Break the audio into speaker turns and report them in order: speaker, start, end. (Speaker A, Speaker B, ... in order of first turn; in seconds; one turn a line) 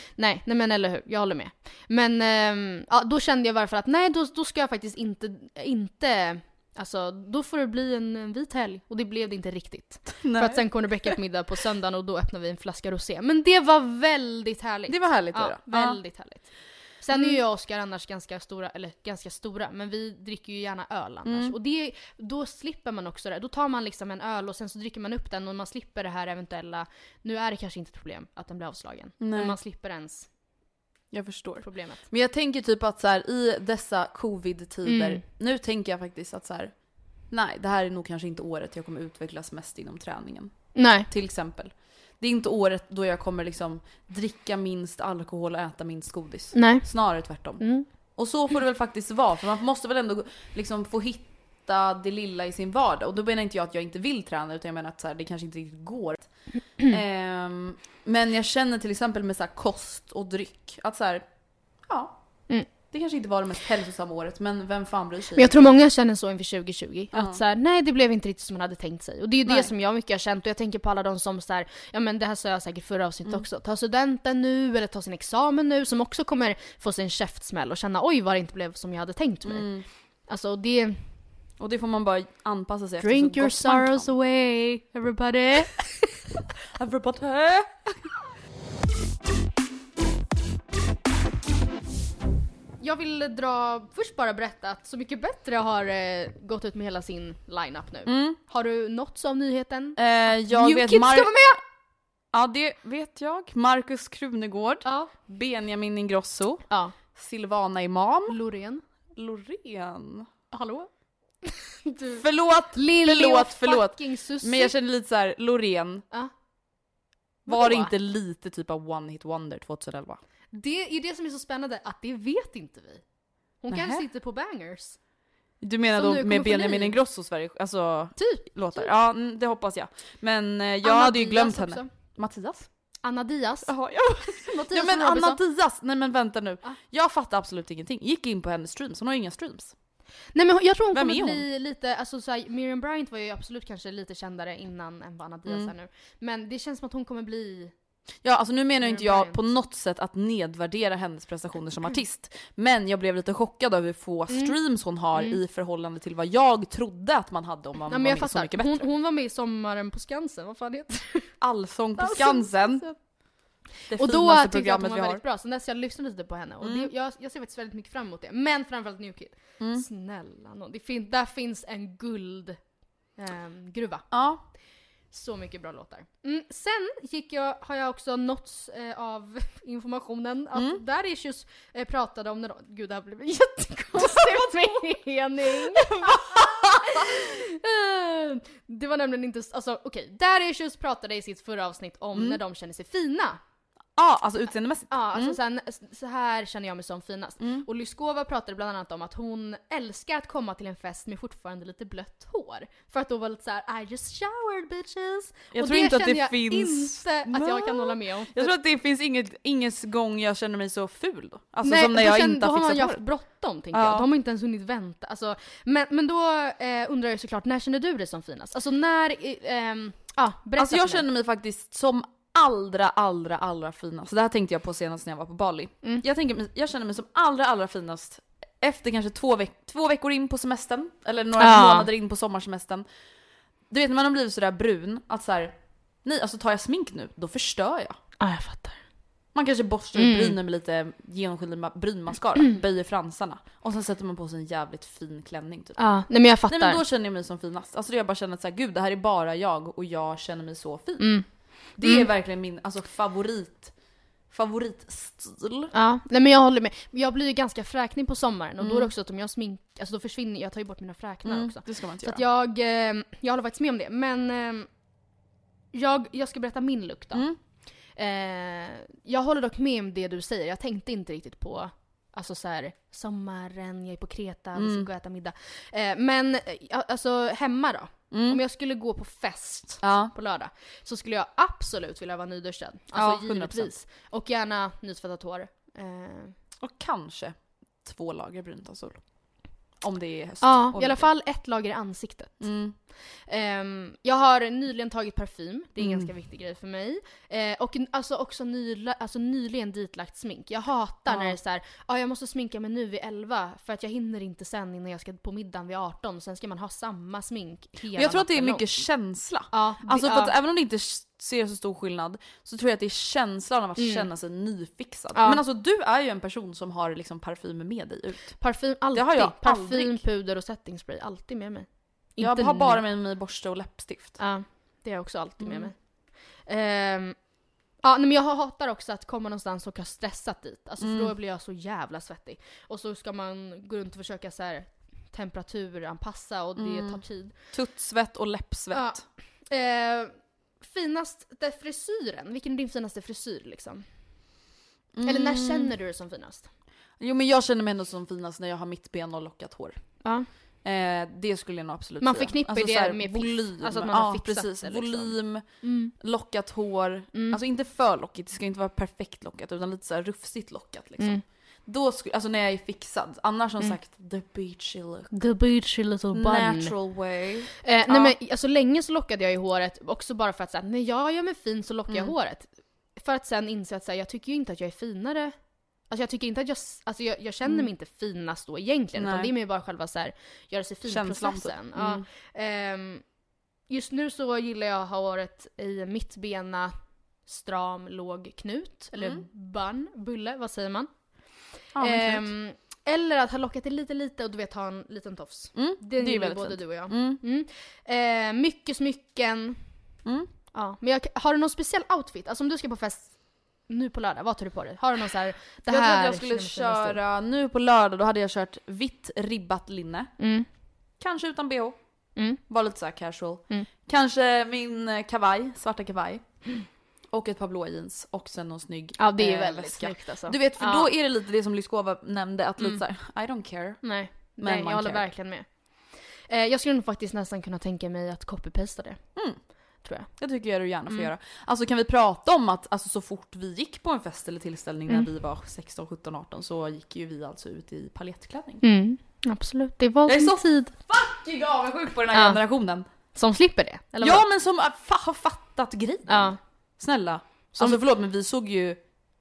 Speaker A: 0.1-16.4
Speaker B: 10.2-11.1
Speaker B: 14.9-16.0
Speaker A: 17.0-30.3
Speaker B: 17.1-17.4
Speaker B: 21.3-21.5
Speaker B: 29.2-29.6
Speaker B: 31.1-56.3
Speaker A: 31.6-32.0
Speaker A: 34.9-35.2
Speaker A: 40.8-41.1
Speaker A: 46.5-47.9
Speaker B: 56.8-61.2
Speaker B: 61.8-65.7
Speaker A: 65.3-79.7
Speaker B: 67.1-67.4
Speaker B: 69.5-69.7
Speaker B: 79.5-79.8
Speaker A: 80.3-81.0
Speaker B: 81.6-84.1
Speaker A: 83.0-86.1
Speaker B: 86.8-87.7
Speaker A: 92.8-101.6
Speaker B: 98.0-98.4
Speaker B: 100.0-101.3
Speaker B: 102.3-108.4
Speaker A: 104.8-105.1
Speaker A: 108.3-108.8
Speaker B: 109.2-110.3
Speaker A: 110.5-110.9
Speaker A: 111.4-114.7
Speaker B: 112.2-116.0
Speaker A: 117.5-117.9
Speaker B: 117.5-120.2
Speaker A: 120.5-123.0
Speaker A: 123.6-125.0
Speaker B: 123.7-124.0
Speaker B: 125.6-132.7
Speaker A: 125.9-127.0
Speaker A: 128.2-128.9
Speaker A: 130.8-131.9
Speaker A: 133.0-135.4
Speaker B: 133.7-139.7
Speaker A: 140.3-147.7
Speaker B: 140.9-141.4
Speaker B: 145.5-145.7
Speaker B: 148.2-158.9
Speaker A: 148.8-149.4
Speaker A: 154.3-154.5
Speaker A: 157.9-161.3
Speaker B: 161.4-162.8
Speaker A: 162.0-163.0
Speaker B: 163.9-165.2
Speaker A: 163.9-172.6
Speaker B: 166.6-166.9
Speaker B: 169.6-169.8
Speaker A: 173.2-174.1
Speaker B: 174.1-174.4
Speaker A: 175.1-193.4
Speaker B: 180.5-180.8
Speaker B: 184.0-184.8
Speaker B: 186.0-186.8
Speaker B: 192.1-192.4
Speaker B: 194.0-195.4
Speaker A: 194.9-208.5
Speaker B: 197.4-197.7
Speaker B: 205.5-213.0
Speaker A: 211.6-221.0
Speaker B: 213.7-214.1
Speaker B: 220.6-232.8
Speaker A: 231.4-231.9
Speaker B: 233.7-238.0
Speaker A: 238.2-238.8
Speaker B: 239.3-245.8
Speaker A: 239.9-240.4
Speaker A: 245.8-246.8
Speaker B: 246.5-251.2
Speaker A: 251.0-251.3
Speaker B: 251.8-253.7
Speaker B: 254.3-255.7
Speaker A: 255.7-264.7
Speaker B: 258.6-258.9
Speaker B: 261.2-262.2
Speaker A: 265.7-267.2
Speaker A: 267.9-286.3
Speaker B: 274.6-274.9
Speaker B: 278.1-278.4
Speaker B: 279.8-280.1
Speaker B: 282.9-283.7
Speaker B: 286.6-291.1
Speaker A: 290.4-292.5
Speaker B: 292.4-292.8
Speaker A: 293.3-308.6
Speaker B: 295.8-296.1
Speaker B: 301.1-301.4
Speaker B: 307.9-318.4
Speaker A: 309.5-310.3
Speaker A: 313.8-314.1
Speaker A: 315.1-315.4
Speaker A: 318.4-322.8
Speaker B: 318.9-320.0
Speaker B: 322.2-324.2
Speaker A: 324.2-325.8
Speaker B: 325.4-325.7
Speaker A: 326.4-327.2
Speaker A: 327.8-337.3
Speaker B: 330.8-331.1
Speaker B: 336.6-339.0
Speaker A: 338.7-343.8
Speaker B: 344.9-345.7
Speaker A: 345.0-346.5
Speaker B: 347.0-349.8
Speaker B: 350.6-355.4
Speaker A: 352.0-355.9
Speaker B: 356.0-365.1
Speaker A: 357.1-357.4
Speaker A: 365.1-366.7
Speaker B: 366.1-368.1
Speaker A: 367.6-375.3
Speaker A: 375.9-383.0
Speaker B: 377.4-377.7
Speaker B: 379.0-379.3
Speaker B: 380.9-382.0
Speaker A: 383.7-386.7
Speaker A: 387.2-390.9
Speaker B: 388.9-389.2
Speaker B: 391.7-392.3
Speaker A: 391.8-399.6
Speaker B: 395.5-397.2
Speaker A: 400.5-407.0
Speaker B: 405.7-410.1
Speaker A: 410.2-410.5
Speaker B: 411.0-411.8
Speaker A: 412.1-412.4
Speaker B: 412.5-416.4
Speaker B: 417.1-425.0
Speaker A: 419.0-420.9
Speaker A: 423.8-425.7
Speaker A: 426.3-429.1
Speaker A: 429.8-430.1
Speaker B: 430.2-438.6
Speaker A: 438.6-440.7
Speaker B: 440.1-442.9
Speaker A: 442.1-442.4
Speaker A: 443.1-444.2
Speaker B: 444.0-448.8
Speaker A: 446.1-446.4
Speaker A: 447.6-447.8